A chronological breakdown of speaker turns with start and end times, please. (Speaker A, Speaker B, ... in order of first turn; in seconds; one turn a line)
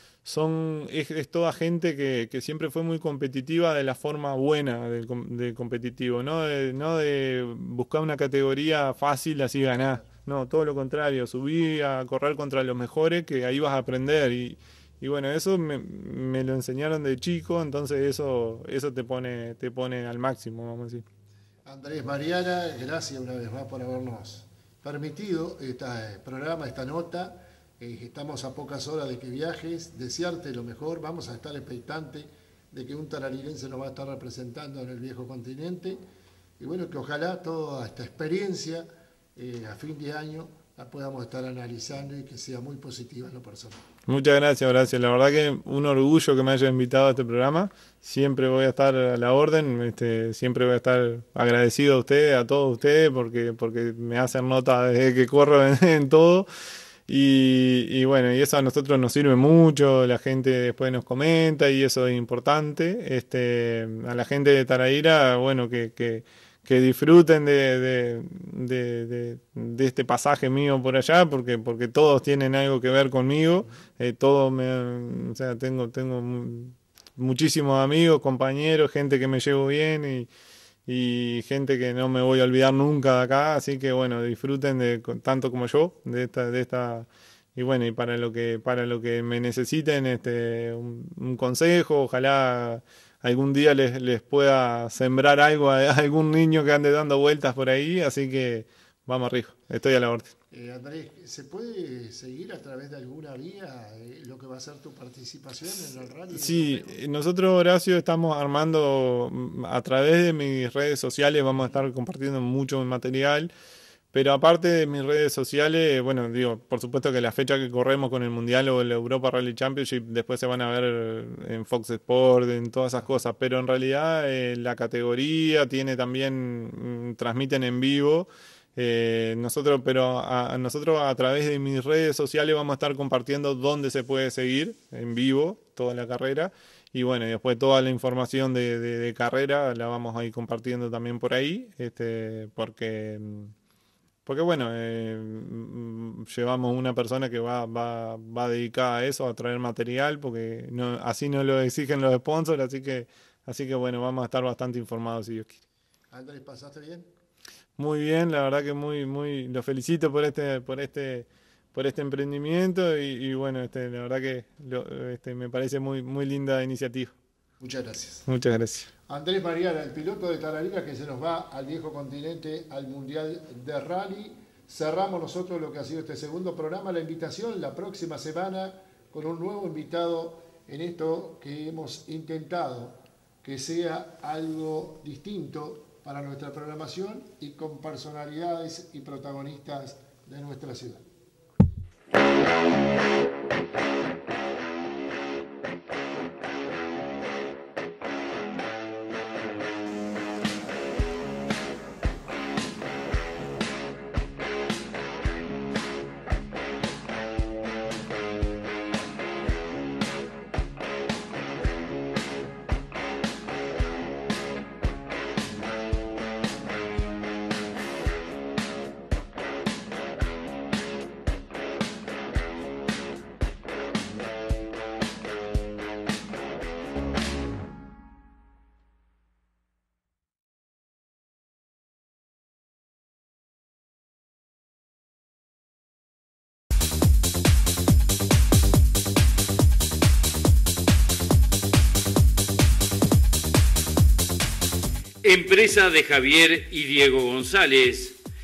Speaker A: 0.2-21.0
Speaker B: 21.6-36.0
Speaker B: 36.6-43.8
Speaker A: 44.1-56.5
Speaker A: 57.1-80.3
Speaker A: 80.9-100.3
Speaker B: 100.5-107.0
Speaker A: 106.3-113.5
Speaker A: 114.1-143.5
Speaker A: 144.2-155.6
Speaker B: 156.1-157.1
Speaker A: 157.8-167.1
Speaker B: 167.6-168.2
Speaker A: 168.3-168.9
Speaker B: 169.1-191.0
Speaker C: 245.2-248.2